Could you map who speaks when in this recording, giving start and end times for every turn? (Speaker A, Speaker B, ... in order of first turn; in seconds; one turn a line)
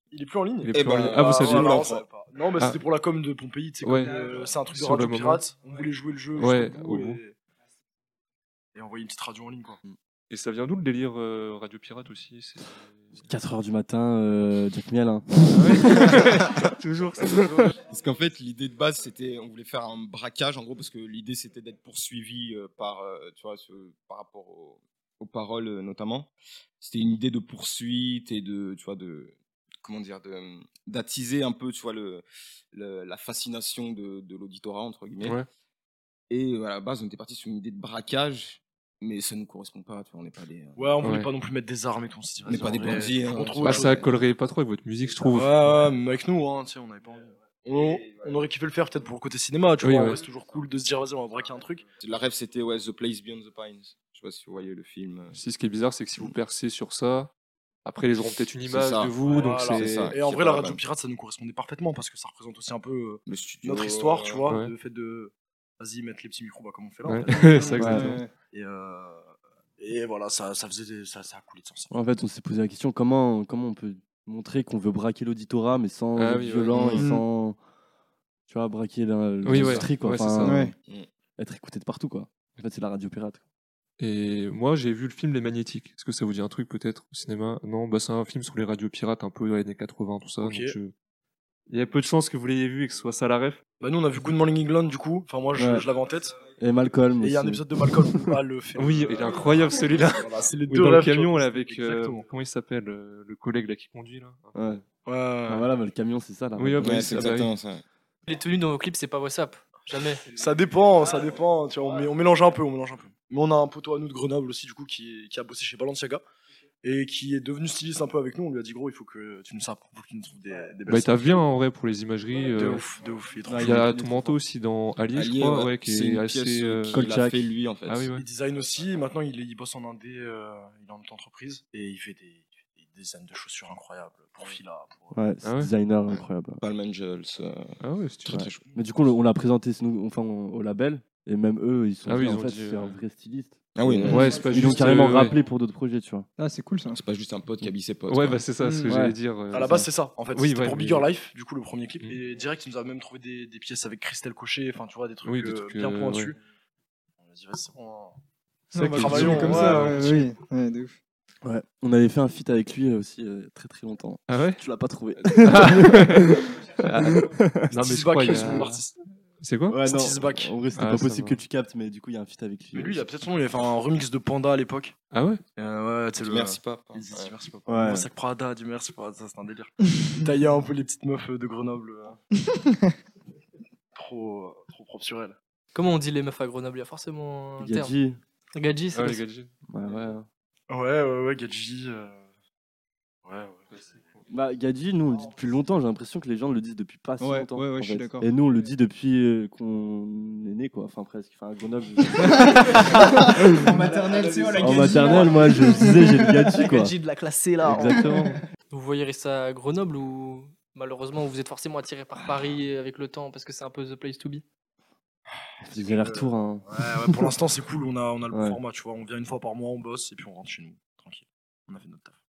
Speaker A: 0.1-7.3
Speaker B: 0.6-1.8
Speaker C: 0.7-2.0
Speaker B: 3.8-5.4
Speaker B: 6.3-7.2
Speaker A: 8.7-9.8
Speaker B: 10.3-13.2
Speaker D: 13.2-16.3
Speaker B: 15.5-17.7
Speaker C: 17.8-35.4
Speaker C: 36.3-40.9
Speaker A: 40.8-44.1
Speaker B: 41.0-41.3
Speaker C: 42.4-44.1
Speaker B: 43.6-45.8
Speaker A: 45.2-51.9
Speaker B: 49.8-50.2
Speaker C: 52.0-55.4
Speaker B: 55.3-57.3
Speaker B: 57.8-60.1
Speaker C: 58.6-60.8
Speaker A: 59.2-71.9
Speaker C: 63.3-64.5
Speaker B: 64.5-64.7
Speaker B: 67.0-68.2
Speaker E: 67.8-68.3
Speaker D: 67.8-68.1
Speaker D: 71.9-77.6
Speaker B: 76.2-77.0
Speaker E: 77.0-77.2
Speaker D: 78.5-80.7
Speaker B: 79.4-80.6
Speaker E: 80.4-80.7
Speaker D: 81.4-83.4
Speaker B: 84.0-90.9
Speaker A: 90.4-90.8
Speaker B: 91.7-93.6
Speaker A: 93.8-96.4
Speaker D: 95.5-95.9
Speaker D: 96.6-98.2
Speaker A: 97.2-102.3
Speaker B: 98.8-104.8
Speaker D: 104.5-104.8
Speaker A: 105.0-105.7
Speaker D: 105.5-107.3
Speaker B: 106.6-107.5
Speaker C: 106.8-107.8
Speaker F: 108.2-110.2
Speaker A: 110.2-116.2
Speaker A: 116.8-121.4
Speaker B: 120.8-122.9
Speaker A: 122.5-124.1
Speaker D: 123.5-124.3
Speaker B: 123.5-127.0
Speaker C: 125.1-128.1
Speaker D: 126.9-127.4
Speaker B: 127.9-128.2
Speaker A: 128.1-135.2
Speaker D: 135.1-136.6
Speaker B: 135.4-135.7
Speaker C: 136.1-138.6
Speaker B: 137.8-138.5
Speaker D: 138.3-146.3
Speaker B: 142.1-143.0
Speaker C: 143.7-144.4
Speaker B: 144.1-145.4
Speaker E: 146.4-147.0
Speaker C: 146.9-148.4
Speaker B: 148.1-151.1
Speaker E: 148.6-148.9
Speaker D: 148.8-149.8
Speaker A: 149.5-156.4
Speaker B: 155.2-156.3
Speaker A: 157.2-158.2
Speaker E: 158.7-161.0
Speaker D: 158.8-159.2
Speaker B: 158.8-160.2
Speaker A: 158.9-160.2
Speaker D: 161.4-167.7
Speaker B: 164.3-164.6
Speaker B: 165.3-168.8
Speaker A: 167.7-169.0
Speaker D: 168.2-168.7
Speaker B: 169.4-169.8
Speaker D: 169.7-173.1
Speaker A: 169.8-170.5
Speaker B: 170.7-171.4
Speaker A: 172.7-174.9
Speaker B: 175.1-175.4
Speaker A: 175.6-182.2
Speaker C: 176.2-177.3
Speaker D: 177.7-178.1
Speaker A: 183.9-185.4
Speaker F: 185.7-187.9
Speaker D: 187.6-188.2
Speaker F: 188.5-189.2
Speaker B: 188.9-189.5
Speaker D: 189.7-190.3
Speaker A: 190.7-192.3
Speaker A: 193.2-193.7
Speaker D: 194.3-203.7
Speaker E: 197.2-198.3
Speaker E: 202.2-206.8
Speaker A: 203.9-205.5
Speaker D: 204.6-206.9
Speaker F: 206.6-208.1
Speaker E: 207.5-208.4
Speaker D: 207.6-208.4
Speaker F: 208.7-214.4
Speaker D: 215.6-217.3
Speaker A: 215.7-222.2
Speaker D: 218.3-218.6